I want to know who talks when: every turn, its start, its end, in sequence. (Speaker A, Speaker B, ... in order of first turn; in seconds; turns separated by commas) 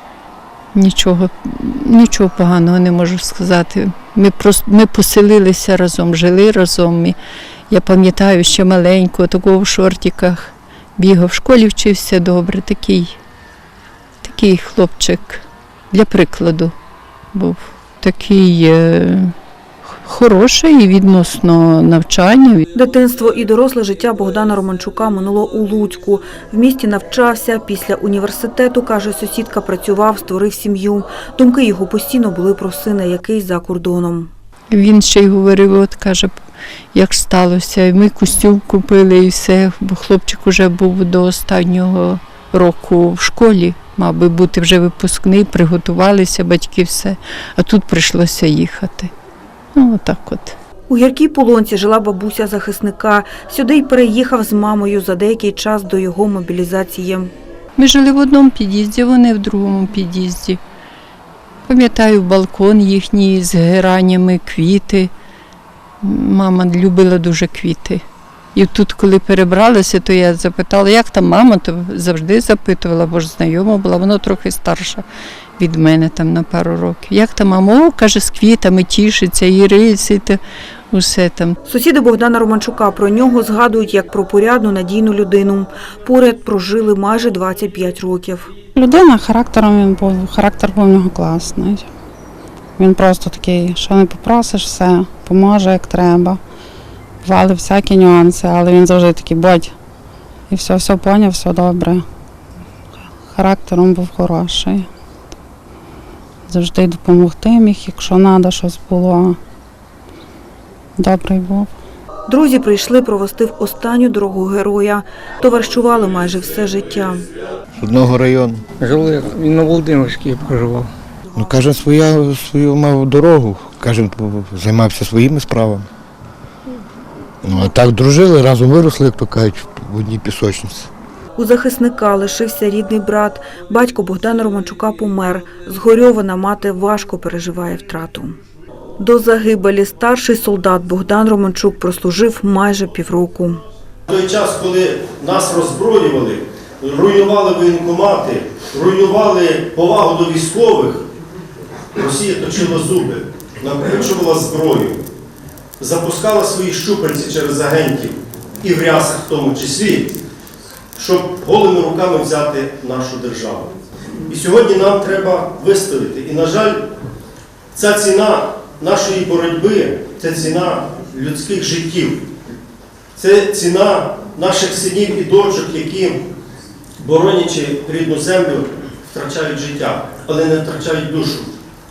Speaker A: 0.7-7.2, Speaker A: 7.7-13.2, Speaker A: 14.2-16.7, Speaker A: 17.3-19.3, Speaker A: 20.0-22.6, Speaker B: 22.7-34.3, Speaker A: 34.7-36.3, Speaker A: 36.9-49.1, Speaker A: 49.7-50.5, Speaker B: 50.9-57.3, Speaker A: 57.8-60.6, Speaker A: 61.7-65.1, Speaker A: 66.0-68.0, Speaker A: 68.5-75.0, Speaker A: 75.6-80.4, Speaker A: 80.9-81.6, Speaker B: 81.7-88.5, Speaker C: 88.7-91.9, Speaker C: 92.8-96.4, Speaker C: 97.2-99.7, Speaker C: 100.5-102.0, Speaker C: 103.3-104.9, Speaker C: 106.5-109.4, Speaker C: 111.0-111.7, Speaker B: 112.3-117.2, Speaker D: 117.8-118.6, Speaker E: 118.8-120.9, Speaker D: 121.3-125.9, Speaker D: 127.4-130.9, Speaker B: 131.4-138.3, Speaker B: 139.0-143.6, Speaker F: 144.1-151.1, Speaker F: 151.9-155.0, Speaker F: 155.8-160.1, Speaker F: 160.9-163.7, Speaker F: 164.3-166.8, Speaker F: 167.7-172.2, Speaker F: 173.2-176.2, Speaker F: 177.0-181.5